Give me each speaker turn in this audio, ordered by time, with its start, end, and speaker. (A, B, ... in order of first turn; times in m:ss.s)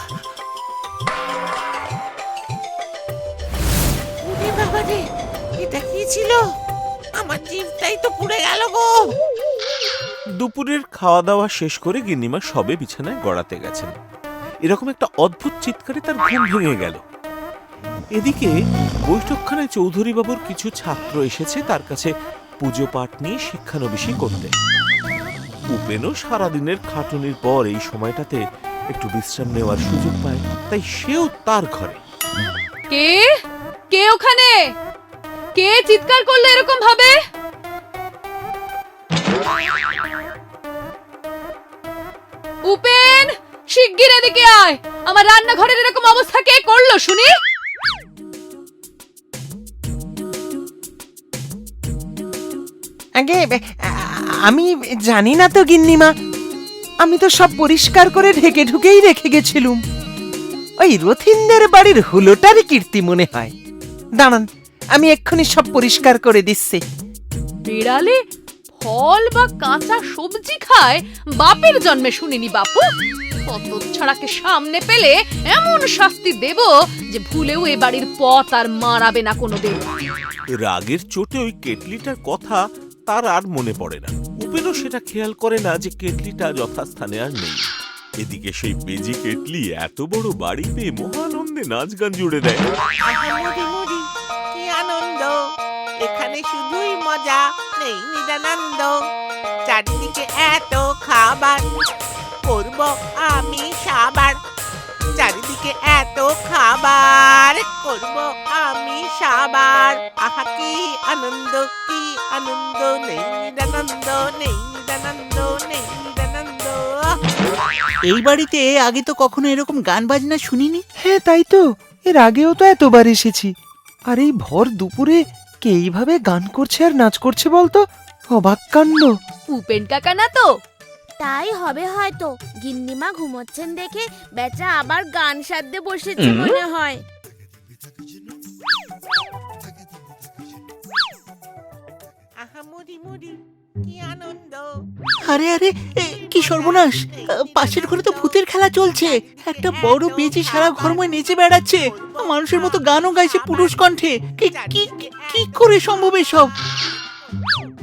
0:04.2-0:05.0 A
0:05.6-0:06.4 A
0:07.2-0:09.1 A
0:10.4-0:13.9 B
0:14.6-0:17.0 B
0:18.2-0:18.5 B
0:19.1-0:24.5 B
0:25.7-0:28.4 B
0:28.9-0:32.0 B
0:32.9-0:33.3 C
0:33.9-0:34.7 C
0:35.6-0:37.2 C
0:42.7-0:47.3 C
0:53.2-0:56.1 D
0:57.0-0:59.8 D
1:00.8-1:03.5 D
1:04.2-1:06.8 D
1:07.7-1:08.2 C
1:08.8-1:12.9 C
1:13.5-1:19.9 C
1:20.6-1:27.6 B
1:28.2-1:32.6 B
1:33.0-1:35.4 A
1:36.0-1:39.0 A
1:39.7-1:41.6 A
1:42.4-1:44.4 A
1:45.2-1:57.1 A
1:58.1-2:00.8 E
2:01.1-2:01.6 D
2:02.1-2:03.5 D
2:04.1-2:07.8 D
2:08.4-2:09.1 D
2:09.5-2:10.5 C
2:11.2-2:17.0 F
2:22.4-2:24.7 A
2:25.2-2:36.5 E
2:26.4-2:33.8 A
2:34.5-2:36.1 A